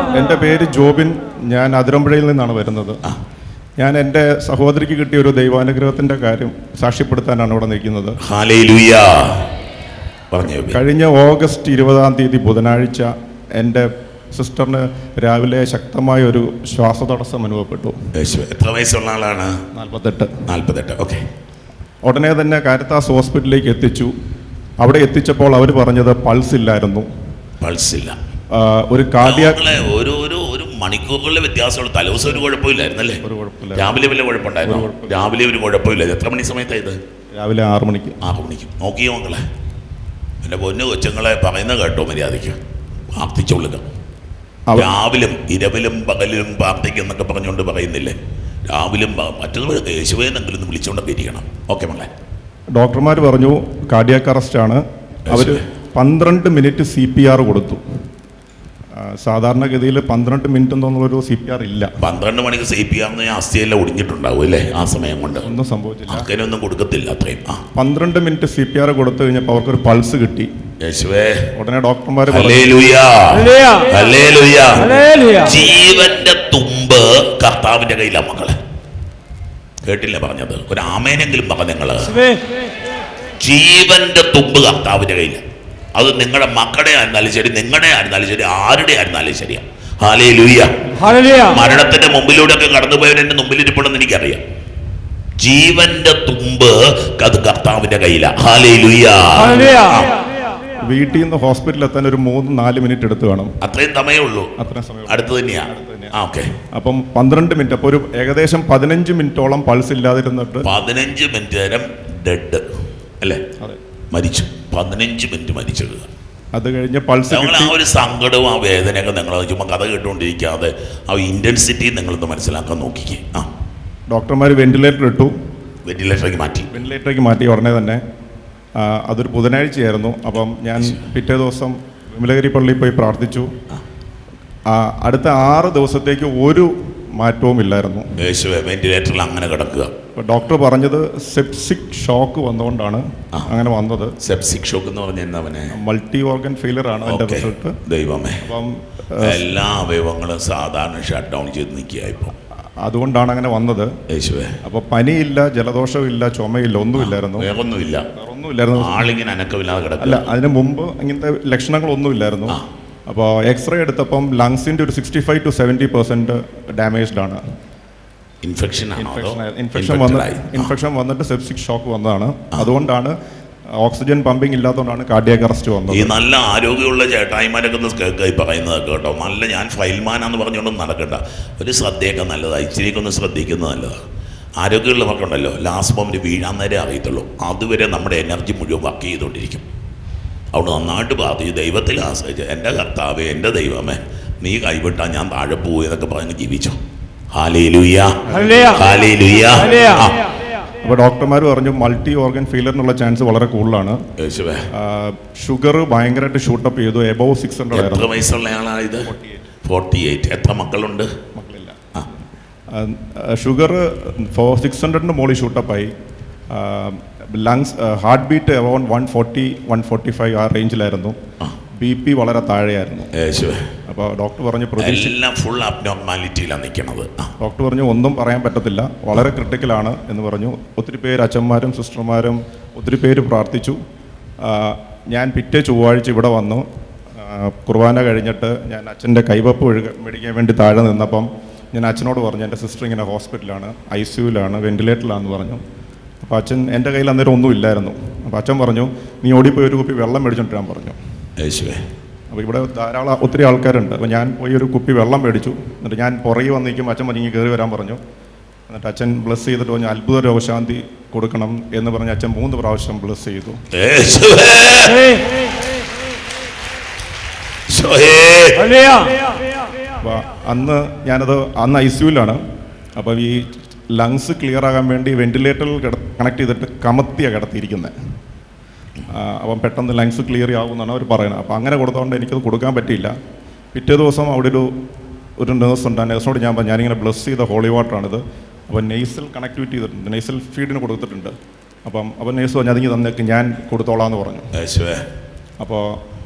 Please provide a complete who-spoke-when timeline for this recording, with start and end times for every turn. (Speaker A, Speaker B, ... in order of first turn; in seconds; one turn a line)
Speaker A: 0.1-3.0
Speaker A: 3.8-8.2
Speaker B: 8.2-9.5
Speaker B: 10.3-10.8
Speaker A: 10.7-17.9
Speaker B: 18.2-19.6
Speaker A: 19.8-20.4
Speaker B: 20.5-21.2
Speaker A: 22.0-24.1
Speaker A: 24.8-27.1
Speaker B: 27.6-28.2
Speaker A: 28.5-29.8
Speaker B: 29.2-33.2
Speaker A: 33.2-34.0
Speaker B: 33.8-37.0
Speaker A: 34.6-35.1
Speaker A: 37.4-38.2
Speaker B: 38.2-39.4
Speaker B: 40.4-42.6
Speaker B: 43.2-43.9
Speaker B: 44.8-48.2
Speaker B: 48.7-52.1
Speaker A: 52.8-57.8
Speaker B: 55.3-55.6
Speaker A: 59.0-61.9
Speaker B: 62.0-65.5
Speaker A: 65.4-66.3
Speaker B: 66.1-67.6
Speaker A: 67.8-70.5
Speaker B: 70.8-71.5
Speaker A: 71.5-72.7
Speaker B: 72.3-78.5
Speaker B: 79.8-82.3
Speaker B: 83.4-85.4
Speaker B: 86.0-94.4
Speaker B: 95.4-100.1
Speaker A: 100.9-103.5
Speaker B: 103.6-104.5
Speaker A: 104.6-106.1
Speaker B: 105.1-106.5
Speaker A: 106.7-110.7
Speaker B: 110.6-112.6
Speaker B: 114.1-116.1
Speaker A: 116.5-117.8
Speaker B: 117.3-123.5
Speaker A: 124.1-125.3
Speaker B: 125.9-126.7
Speaker A: 126.7-128.0
Speaker A: 128.8-133.5
Speaker A: 134.7-138.1
Speaker B: 138.2-139.9
Speaker A: 140.2-144.1
Speaker B: 144.2-145.7
Speaker A: 145.7-147.8
Speaker B: 147.1-148.4
Speaker A: 148.4-149.6
Speaker B: 149.2-152.3
Speaker A: 152.8-153.9
Speaker B: 154.1-154.6
Speaker A: 154.6-157.5
Speaker B: 157.0-158.1
Speaker A: 158.2-159.0
Speaker B: 158.8-160.3
Speaker A: 160.0-167.4
Speaker B: 168.4-170.7
Speaker A: 169.0-173.2
Speaker A: 173.8-176.2
Speaker B: 175.9-184.0
Speaker B: 184.6-189.6
Speaker B: 190.5-196.8
Speaker B: 197.3-200.1
Speaker A: 198.3-198.8
Speaker A: 200.8-204.0
Speaker B: 204.2-204.6
Speaker A: 204.7-208.1
Speaker B: 207.7-209.1
Speaker A: 209.0-209.5
Speaker B: 209.7-211.1
Speaker A: 211.3-211.8
Speaker A: 212.7-215.9
Speaker A: 216.5-221.2
Speaker A: 221.8-223.1
Speaker B: 223.2-223.7
Speaker A: 223.9-225.2
Speaker B: 224.8-227.3
Speaker A: 227.4-233.8
Speaker A: 234.4-245.6
Speaker A: 246.2-251.0
Speaker B: 251.4-251.8
Speaker A: 252.3-258.0
Speaker A: 258.7-263.6
Speaker B: 263.7-265.1
Speaker B: 267.7-269.0
Speaker A: 270.0-272.4
Speaker A: 273.0-277.9
Speaker A: 279.1-283.1
Speaker A: 283.7-284.7
Speaker A: 285.4-291.3
Speaker A: 291.9-294.5
Speaker B: 294.6-295.1
Speaker A: 295.6-296.0